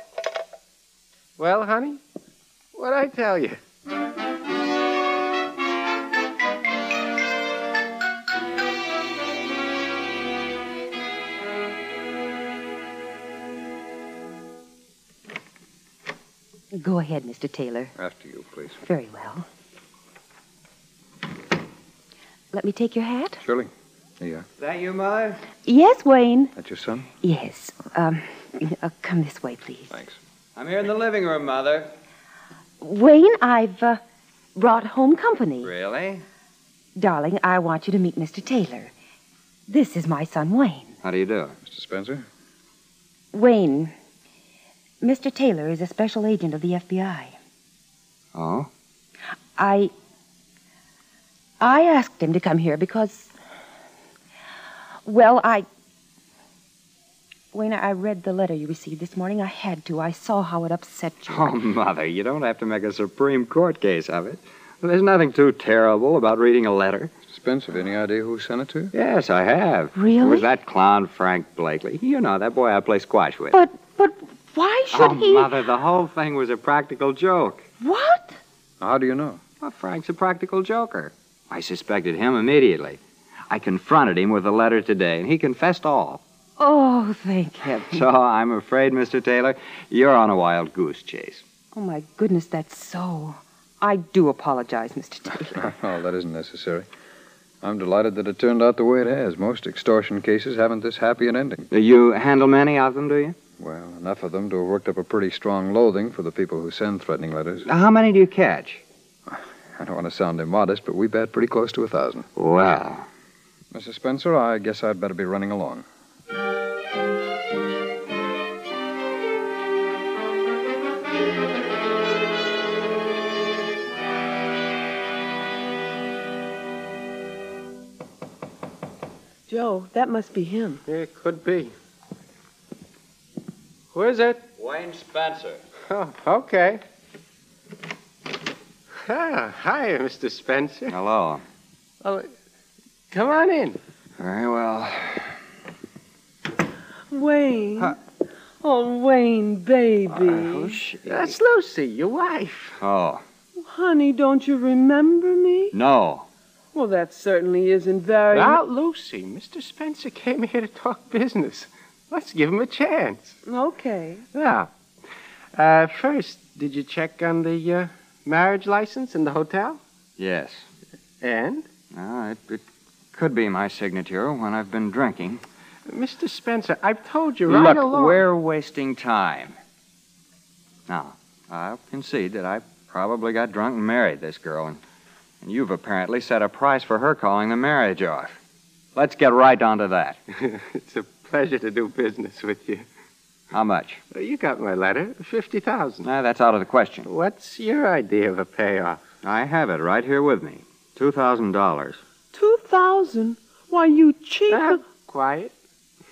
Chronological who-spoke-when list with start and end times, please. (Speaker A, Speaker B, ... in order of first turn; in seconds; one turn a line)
Speaker A: 1.4-2.0
Speaker A: 2.7-3.6
Speaker B: 16.7-17.9
Speaker C: 17.9-18.8
Speaker B: 18.8-19.5
Speaker B: 22.5-23.4
Speaker C: 23.4-24.5
Speaker D: 24.6-25.4
Speaker B: 25.6-26.5
Speaker C: 26.6-27.1
Speaker B: 27.2-29.9
Speaker C: 29.9-30.2
Speaker D: 30.5-31.9
Speaker B: 32.8-34.0
Speaker B: 34.5-35.7
Speaker D: 35.6-36.2
Speaker B: 37.0-38.9
Speaker B: 39.7-41.0
Speaker D: 41.0-41.5
Speaker C: 41.6-42.2
Speaker B: 43.3-43.9
Speaker B: 45.0-47.4
Speaker D: 48.3-48.7
Speaker B: 49.6-49.9
Speaker B: 51.6-53.3
Speaker B: 55.0-55.6
Speaker B: 57.5-61.5
Speaker D: 61.3-67.1
Speaker C: 67.3-68.9
Speaker D: 68.9-73.5
Speaker B: 69.9-70.5
Speaker B: 73.5-75.5
Speaker D: 74.9-77.6
Speaker B: 77.8-78.4
Speaker C: 78.8-79.4
Speaker D: 79.6-86.2
Speaker B: 86.6-88.0
Speaker D: 87.8-91.4
Speaker B: 91.7-95.7
Speaker C: 95.5-96.9
Speaker C: 97.6-101.7
Speaker D: 101.7-103.3
Speaker C: 103.6-107.7
Speaker D: 107.7-108.8
Speaker C: 109.3-112.3
Speaker D: 112.3-113.1
Speaker C: 113.7-115.8
Speaker E: 129.5-130.8
Speaker A: 130.9-131.7
Speaker A: 133.9-134.4
Speaker D: 134.6-135.6
Speaker A: 135.9-136.8
Speaker A: 139.1-140.9
Speaker D: 140.9-141.4
Speaker A: 142.0-142.3
Speaker A: 143.1-143.8
Speaker D: 144.2-145.3
Speaker E: 147.1-148.0
Speaker E: 148.6-150.8
Speaker D: 150.1-151.3
Speaker A: 151.1-152.8
Speaker D: 152.8-153.2
Speaker E: 153.6-155.7
Speaker D: 155.7-156.3
Speaker E: 156.7-158.6
Speaker A: 158.3-163.4
Speaker E: 163.4-164.2
Speaker A: 164.3-164.7
Speaker A: 165.6-169.8
Speaker D: 170.2-170.7
Speaker A: 171.2-171.7
Speaker D: 171.9-175.4
Speaker A: 175.9-178.2
Speaker D: 177.4-179.6
Speaker D: 180.9-184.8
Speaker D: 185.4-188.4
Speaker D: 188.9-190.2
Speaker A: 190.4-192.8
Speaker D: 193.5-194.0
Speaker A: 194.1-196.1
Speaker D: 196.0-197.1
Speaker A: 197.1-199.0
Speaker D: 199.2-202.0
Speaker E: 202.3-204.8
Speaker A: 204.5-205.5